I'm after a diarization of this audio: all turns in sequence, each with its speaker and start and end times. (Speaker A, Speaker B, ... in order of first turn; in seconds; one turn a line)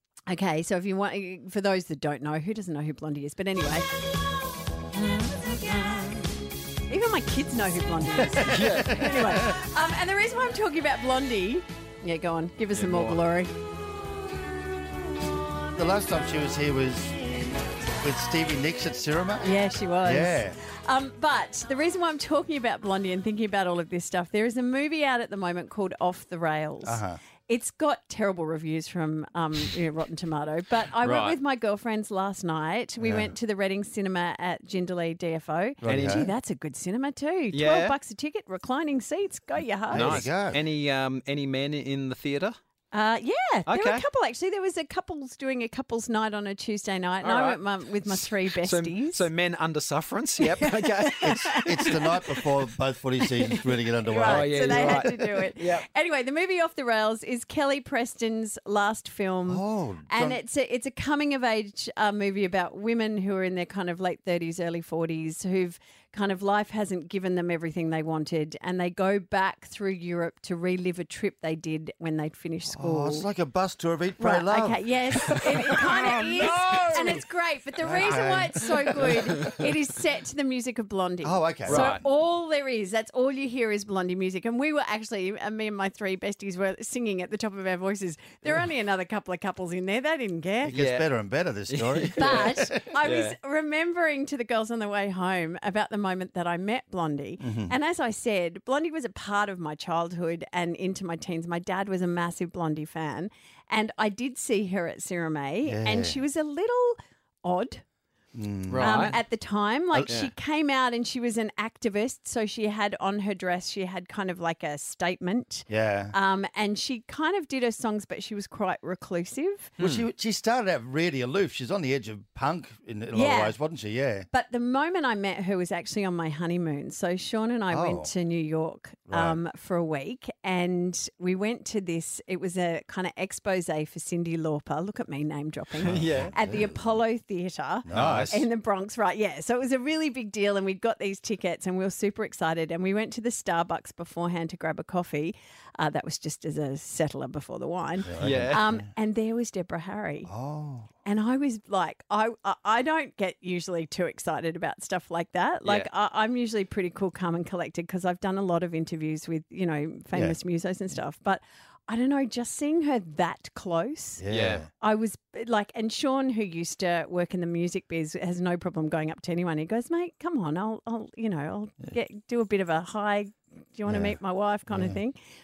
Speaker A: 0.3-3.9
Speaker B: 4.9-6.2
Speaker A: 6.9-13.5
Speaker B: 8.4-9.4
Speaker C: 8.4-9.6
Speaker B: 12.7-13.2
Speaker C: 15.7-19.5
Speaker A: 19.4-40.2
Speaker C: 20.0-20.6
Speaker C: 26.8-27.2
Speaker B: 31.0-31.4
Speaker C: 33.0-33.3
Speaker C: 35.8-36.3
Speaker B: 35.8-36.3
Speaker B: 37.5-37.9
Speaker C: 39.9-40.6
Speaker B: 39.9-42.6
Speaker A: 42.9-49.3
Speaker B: 43.7-44.0
Speaker B: 47.2-51.5
Speaker A: 50.4-52.5
Speaker C: 51.2-55.1
Speaker A: 53.2-73.3
Speaker B: 54.2-55.8
Speaker C: 59.5-60.4
Speaker C: 72.7-77.2
Speaker A: 74.2-90.7
Speaker B: 75.3-77.2
Speaker C: 77.8-79.2
Speaker C: 81.2-81.9
Speaker B: 81.7-82.0
Speaker C: 90.6-93.0
Speaker B: 90.7-91.0
Speaker B: 91.7-93.3
Speaker A: 92.2-107.8
Speaker C: 97.4-97.7
Speaker C: 105.6-106.2
Speaker C: 108.3-109.2
Speaker B: 108.7-109.2
Speaker A: 108.8-119.8
Speaker B: 110.1-110.3
Speaker C: 115.7-116.1
Speaker B: 119.8-120.1
Speaker C: 119.8-124.3
Speaker A: 123.1-123.5
Speaker A: 124.3-150.3
Speaker C: 127.7-128.1
Speaker C: 129.1-129.4
Speaker C: 135.8-136.8
Speaker B: 135.8-136.3
Speaker C: 137.8-138.4
Speaker B: 137.9-138.4
Speaker C: 148.0-148.8
Speaker B: 148.2-148.6
Speaker C: 150.3-150.9
Speaker A: 151.0-175.2
Speaker C: 164.2-164.7
Speaker B: 164.3-164.6
Speaker C: 173.9-174.2
Speaker C: 174.7-175.0